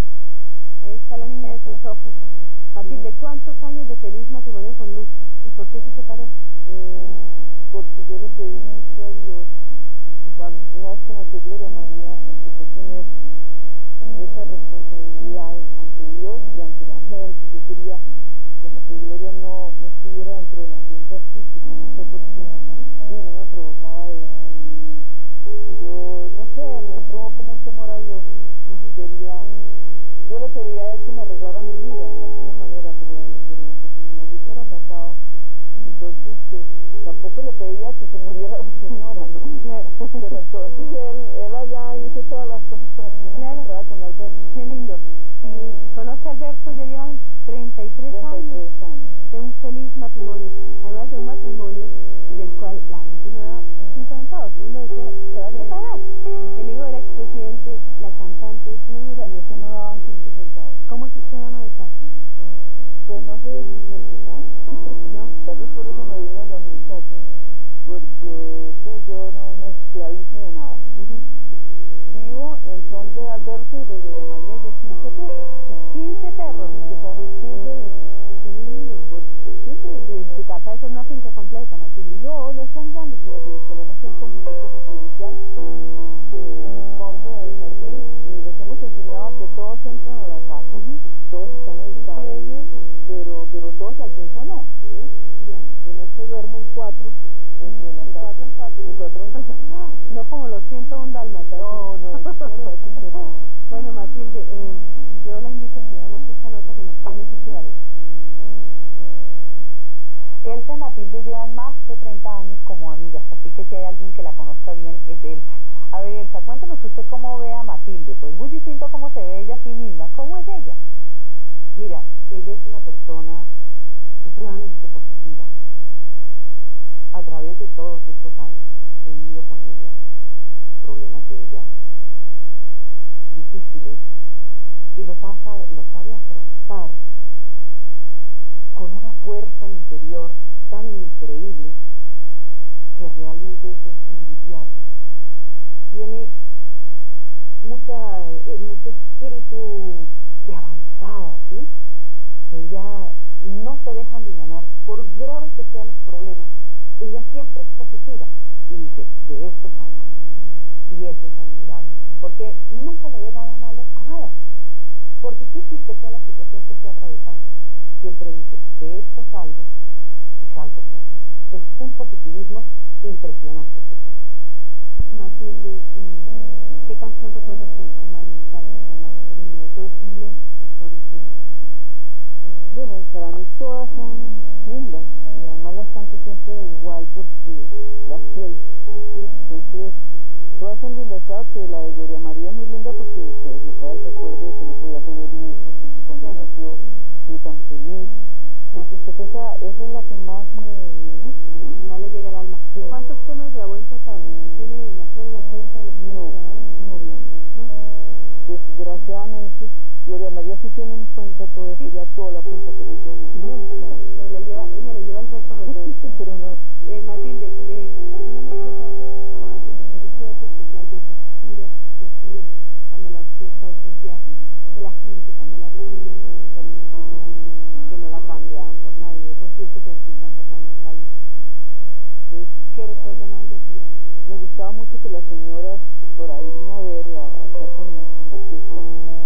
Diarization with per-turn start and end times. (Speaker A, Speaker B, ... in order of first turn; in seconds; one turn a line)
Speaker A: 0.8-6.3
Speaker B: 2.8-3.1
Speaker B: 6.7-9.5
Speaker B: 10.4-13.1
Speaker B: 14.1-18.0
Speaker B: 18.6-22.4
Speaker A: 22.2-22.9
Speaker B: 23.0-25.1
Speaker B: 25.6-28.3
Speaker A: 28.7-29.0
Speaker B: 28.9-29.5
Speaker B: 30.2-35.2
Speaker B: 35.8-44.8
Speaker A: 39.5-40.4
Speaker A: 43.3-43.7
Speaker A: 44.5-48.6
Speaker B: 48.1-49.2
Speaker A: 49.3-59.5
Speaker B: 55.3-55.9
Speaker B: 59.2-60.9
Speaker A: 60.9-62.0
Speaker B: 63.0-67.3
Speaker A: 65.1-65.3
Speaker B: 67.8-70.9
Speaker A: 71.0-71.3
Speaker B: 72.1-75.5
Speaker A: 75.7-76.8
Speaker B: 76.7-78.2
Speaker A: 78.3-79.1
Speaker B: 79.1-80.5
Speaker A: 80.0-82.2
Speaker B: 82.1-85.4
Speaker B: 86.3-92.4
Speaker A: 90.7-91.0
Speaker C: 92.0-92.6
Speaker A: 92.1-92.9
Speaker B: 93.0-95.1
Speaker A: 95.4-95.7
Speaker B: 95.8-99.7
Speaker A: 98.0-102.7
Speaker B: 101.5-103.5
Speaker A: 103.7-107.5
Speaker C: 106.5-107.8
Speaker C: 110.5-120.8
Speaker D: 121.8-123.5
Speaker D: 124.2-125.5
Speaker D: 127.1-130.0
Speaker D: 130.8-131.7
Speaker D: 133.3-134.1
Speaker D: 134.9-137.0
Speaker D: 138.7-141.8
Speaker D: 142.9-144.9
Speaker D: 145.9-146.3
Speaker D: 147.6-151.7
Speaker D: 152.5-160.1
Speaker D: 160.9-164.3
Speaker D: 165.2-169.7
Speaker D: 170.4-174.2
Speaker A: 175.1-181.3
Speaker B: 182.7-188.8
Speaker A: 188.9-189.3
Speaker B: 189.4-190.0
Speaker B: 190.6-198.2
Speaker A: 196.2-196.5
Speaker A: 198.7-198.9
Speaker B: 198.7-201.8
Speaker A: 201.8-206.7
Speaker B: 202.7-203.0
Speaker B: 205.9-207.3
Speaker A: 207.5-207.8
Speaker B: 208.4-214.1
Speaker A: 214.1-216.0
Speaker B: 215.5-216.6
Speaker A: 216.8-231.1
Speaker B: 232.3-233.2
Speaker A: 232.7-234.0
Speaker B: 234.2-238.9